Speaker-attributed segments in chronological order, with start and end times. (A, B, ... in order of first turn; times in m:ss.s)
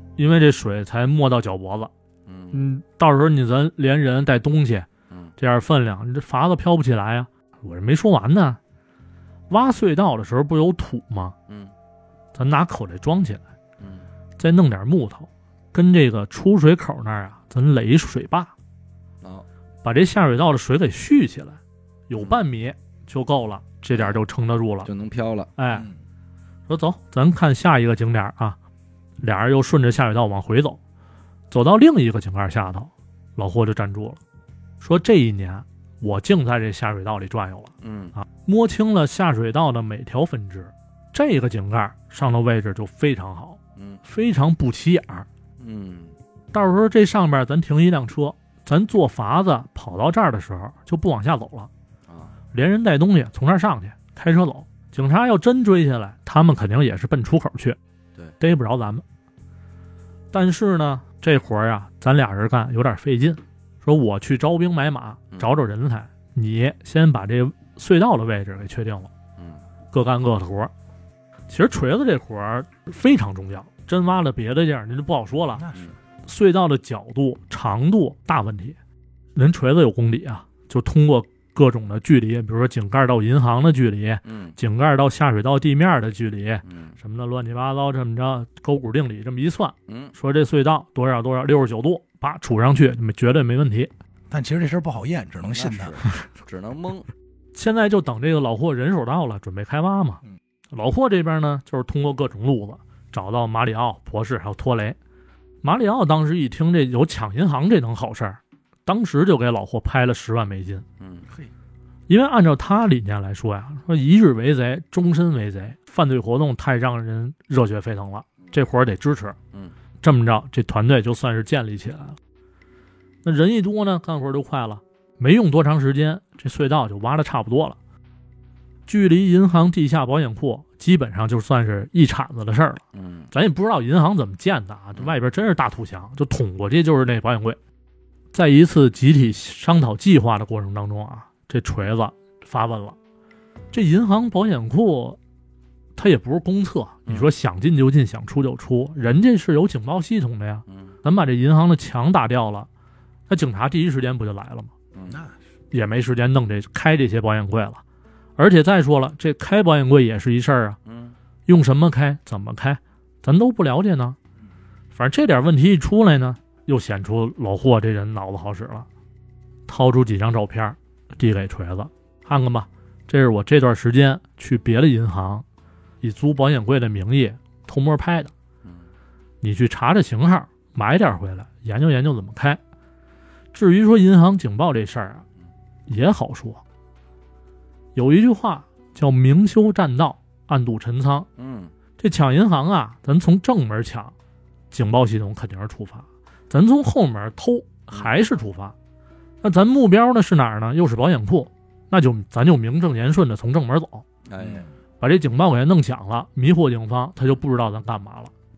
0:00.2-0:01.9 A
0:02.3-0:02.6 B
0:02.5-0:08.6 A
0:05.1-0:05.4 B
0:09.5-0:11.4 A
0:12.4-0:13.4 A
0:13.8-0:14.1 B
0:14.4-0:18.5 A
0:19.8-0:24.9 A
0:23.9-0:24.2 B
0:24.8-0:25.5 B
0:25.6-0:25.9 A
0:26.7-0:28.6 A
0:29.2-0:30.8 A
0:31.5-0:34.2 A
0:34.8-0:45.3 A
0:37.8-0:38.2 B
0:43.8-0:44.0 B
0:45.6-0:46.1 B
0:46.5-0:51.7 A
0:52.1-0:52.3 B
0:52.5-0:57.8 A
0:58.4-0:59.0 A
1:00.3-1:09.1 A
1:09.4-1:09.6 B
1:09.9-1:10.7 A
1:11.5-1:15.7 A
1:15.6-1:15.9 C
1:16.2-1:18.8 A
1:19.4-1:33.9 A
1:24.2-1:24.6 B
1:26.6-1:27.0 B
1:29.9-1:30.2 B
1:34.3-1:36.0 C
1:35.5-1:37.1 B
1:37.6-1:40.2 A
1:40.7-1:45.0 A
1:45.6-1:50.8 A
1:51.0-1:51.3 B
1:52.1-1:59.4 A
2:00.0-2:02.2 A
2:03.2-2:07.8 A
2:08.9-2:17.6 A
2:12.9-2:13.3 B
2:18.3-2:23.0 A
2:23.7-2:25.2 A
2:26.0-2:32.7 A
2:30.7-2:30.9 B
2:33.3-2:34.7 A
2:34.9-2:35.2 B
2:35.7-2:37.8 A
2:38.4-2:40.8 A
2:40.9-2:41.2 B
2:41.5-2:44.2 A
2:44.9-2:48.9 A
2:49.7-2:55.4 A
2:56.0-2:58.3 A
2:59.4-3:02.6 A
3:03.5-3:05.2 A
3:05.9-3:06.6 A
3:08.0-3:11.3 A
3:11.4-3:11.7 B
3:12.0-3:14.1 A
3:14.7-3:18.8 A
3:19.4-3:24.1 A
3:24.3-3:24.7 B
3:25.0-3:28.3 A